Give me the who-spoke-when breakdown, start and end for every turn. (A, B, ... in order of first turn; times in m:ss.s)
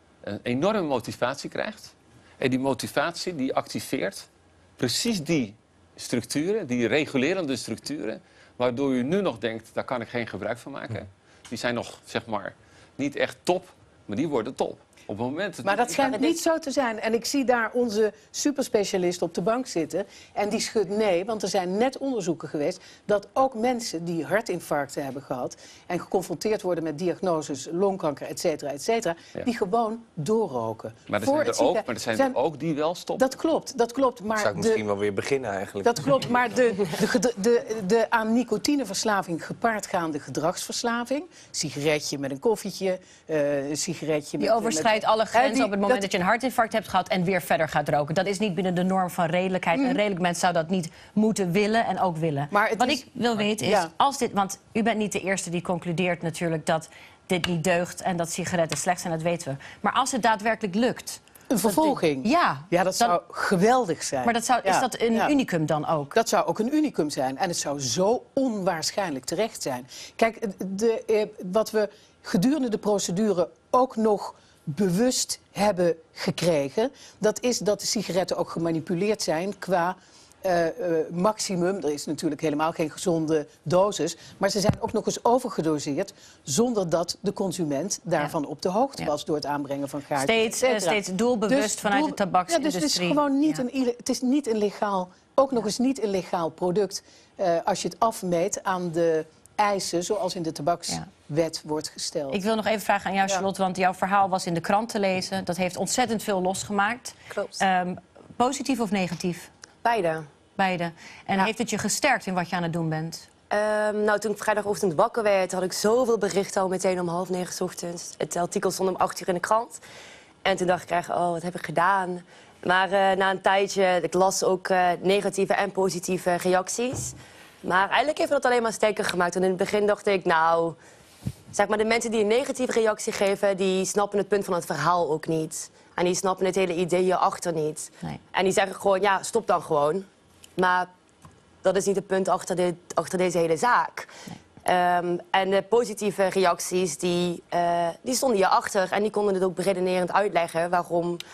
0:00.2-0:16.4 A
0:15.6-0:32.4 B
0:31.1-0:33.3 A
0:33.2-0:34.8 B
0:34.3-0:36.4 C
0:35.8-0:46.1 B
0:44.4-1:03.2 D
0:49.7-0:50.0 B
0:52.5-0:53.0 B
0:53.6-0:53.9 B
1:01.5-1:05.3 B
1:04.2-1:06.2 D
1:06.1-1:42.4 B
1:30.2-1:33.6 D
1:42.3-1:49.5 D
1:47.3-1:47.6 E
1:49.8-1:50.3 E
1:50.6-1:53.3 D
1:53.5-1:59.8 E
2:00.4-2:10.8 E
2:11.5-2:20.9 E
2:21.6-2:24.1 E
2:24.6-2:31.2 E